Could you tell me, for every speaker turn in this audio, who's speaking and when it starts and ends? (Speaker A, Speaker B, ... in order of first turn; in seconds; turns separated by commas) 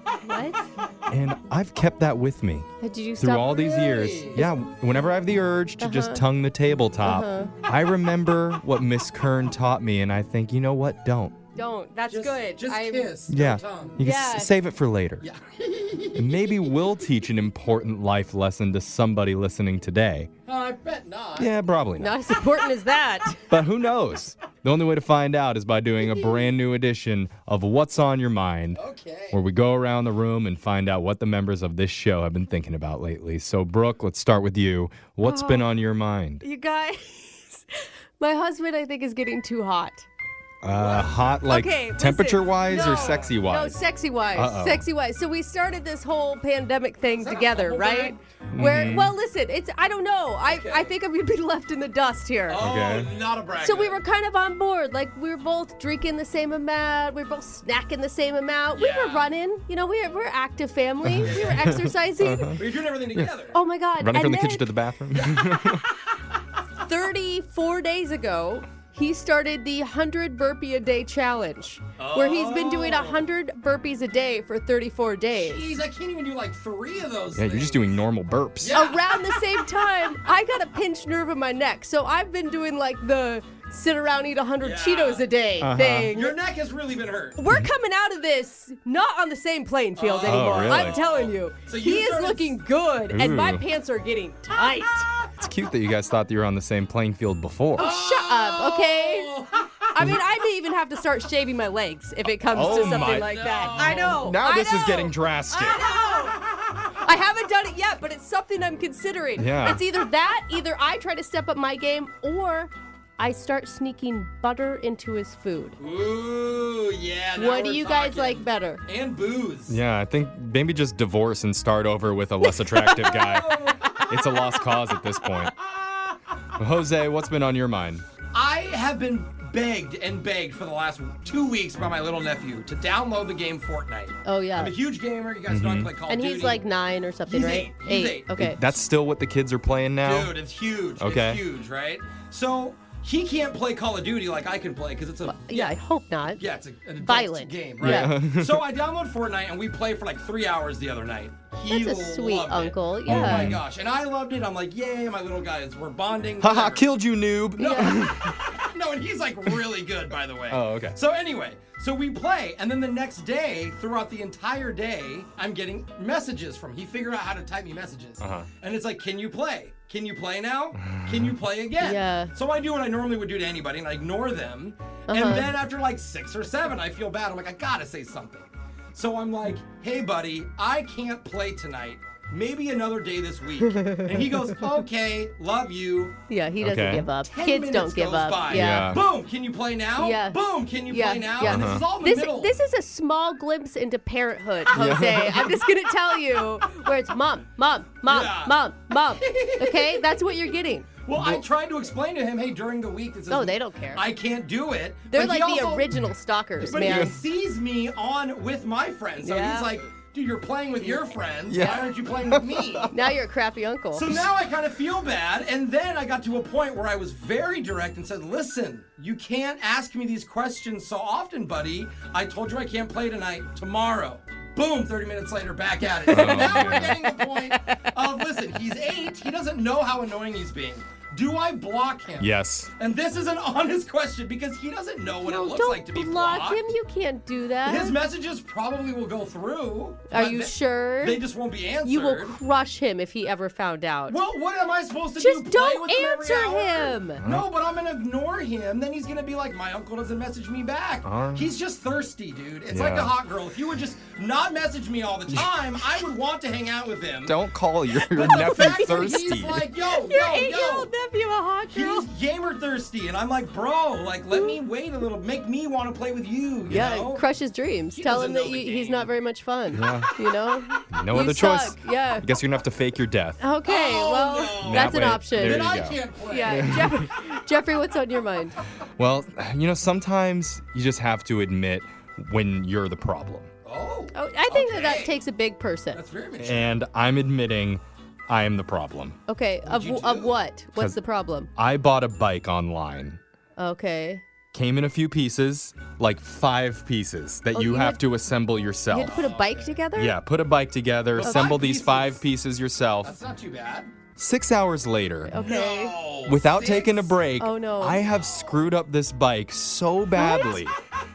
Speaker A: 0.2-0.7, Speaker B: 1.1-11.3, Speaker A: 2.8-4.5, Speaker C: 3.9-4.4, Speaker A: 5.8-6.2, Speaker A: 7.0-7.5, Speaker A: 11.6-13.2, Speaker C: 12.1-14.0, Speaker B: 13.3-15.2, Speaker A: 14.0-14.5, Speaker C: 15.2-16.9, Speaker B: 16.1-20.3, Speaker C: 20.4-21.5, Speaker B: 21.4-22.2, Speaker A: 22.0-23.5, Speaker B: 23.5-28.8, Speaker C: 26.0-26.5, Speaker C: 28.7-29.4, Speaker B: 29.3-36.4, Speaker A: 35.2-35.7, Speaker A: 36.4-37.6, Speaker A: 38.2-40.0, Speaker B: 40.6-43.8, Speaker C: 40.7-41.2, Speaker A: 41.4-52.7, Speaker C: 42.7-43.4, Speaker B: 44.3-44.8, Speaker C: 47.1-48.2, Speaker B: 48.5-49.1, Speaker C: 50.5-50.9, Speaker C: 52.5-54.0, Speaker B: 52.6-53.1, Speaker A: 53.6-62.6, Speaker C: 58.8-59.3, Speaker B: 61.0-62.6, Speaker C: 62.6-63.6, Speaker A: 63.5-64.7, Speaker B: 64.0-65.8, Speaker C: 65.1-66.0, Speaker A: 66.8-75.7, Speaker C: 72.0-73.3, Speaker C: 75.3-78.0, Speaker B: 77.3-78.9, Speaker C: 78.6-79.2, Speaker A: 78.7-86.4, Speaker C: 84.6-85.3, Speaker B: 85.6-86.1, Speaker C: 86.1-87.4, Speaker A: 87.3-95.1, Speaker C: 90.0-92.6, Speaker B: 90.2-91.0, Speaker B: 93.1-93.6, Speaker C: 94.5-95.3, Speaker B: 95.4-98.0, Speaker A: 97.7-106.4, Speaker C: 97.8-100.0, Speaker B: 102.5-105.8, Speaker C: 102.7-104.3, Speaker A: 107.0-115.8, Speaker B: 109.4-109.8, Speaker C: 115.8-119.8, Speaker A: 117.3-118.8, Speaker B: 119.7-125.5, Speaker A: 122.5-123.4, Speaker C: 123.0-123.9, Speaker C: 125.5-126.2, Speaker B: 126.6-128.0, Speaker C: 128.3-136.6, Speaker A: 134.2-134.7, Speaker B: 135.5-135.9, Speaker A: 136.1-138.6, Speaker C: 137.3-138.3, Speaker B: 138.3-140.3, Speaker C: 140.0-145.7, Speaker B: 141.0-141.4, Speaker A: 145.3-146.4, Speaker C: 146.3-156.9, Speaker A: 147.0-148.1, Speaker B: 147.8-148.6, Speaker A: 151.7-153.6, Speaker B: 153.1-153.6, Speaker B: 156.4-158.4, Speaker A: 157.6-158.0, Speaker C: 157.7-186.2, Speaker B: 160.5-160.9, Speaker B: 168.2-168.5, Speaker B: 170.8-171.3, Speaker A: 171.8-172.3, Speaker A: 175.1-175.5, Speaker A: 183.6-184.3, Speaker A: 186.3-189.0, Speaker B: 186.6-187.1, Speaker C: 187.3-192.5, Speaker B: 188.5-189.0, Speaker A: 190.0-200.9, Speaker B: 191.4-191.8, Speaker C: 194.7-195.7, Speaker B: 194.7-195.4, Speaker C: 198.1-200.2, Speaker C: 201.0-205.9, Speaker B: 201.1-201.4, Speaker A: 203.3-204.0, Speaker A: 205.1-207.2, Speaker B: 206.6-207.1, Speaker C: 206.6-212.9, Speaker A: 209.2-209.8, Speaker B: 211.5-212.9, Speaker A: 211.6-211.9, Speaker A: 212.9-214.1, Speaker C: 213.9-236.6, Speaker A: 226.0-227.8, Speaker B: 226.1-226.9, Speaker B: 232.2-232.7, Speaker A: 235.2-238.0, Speaker C: 237.6-242.3, Speaker A: 240.1-241.2, Speaker A: 241.8-244.2, Speaker C: 244.1-257.4, Speaker A: 245.2-247.2, Speaker B: 247.2-247.4, Speaker B: 251.0-251.5, Speaker B: 252.7-253.1, Speaker B: 257.2-259.6, Speaker C: 257.9-260.9, Speaker A: 258.2-262.1, Speaker C: 261.7-267.2, Speaker A: 264.3-264.6, Speaker A: 266.7-272.3, Speaker C: 267.9-269.1, Speaker B: 269.7-270.1, Speaker B: 270.9-273.4, Speaker A: 273.4-278.6, Speaker C: 273.6-276.9, Speaker B: 274.6-277.1, Speaker B: 279.0-283.5, Speaker C: 283.6-285.2, Speaker A: 284.1-286.0, Speaker C: 285.9-286.8, Speaker B: 286.4-289.2, Speaker A: 289.3-291.5, Speaker C: 289.6-290.4, Speaker B: 291.6-293.2, Speaker A: 293.6-294.2, Speaker B: 294.5-299.2, Speaker A: 297.5-298.0, Speaker A: 298.9-300.1, Speaker C: 299.1-299.8, Speaker B: 299.9-303.1, Speaker C: 301.1-302.2, Speaker A: 301.2-301.6, Speaker C: 303.0-303.9, Speaker B: 304.2-305.4, Speaker A: 305.3-306.0, Speaker C: 305.3-307.2, Speaker B: 306.2-310.8, Speaker A: 307.4-308.1, Speaker A: 310.1-310.6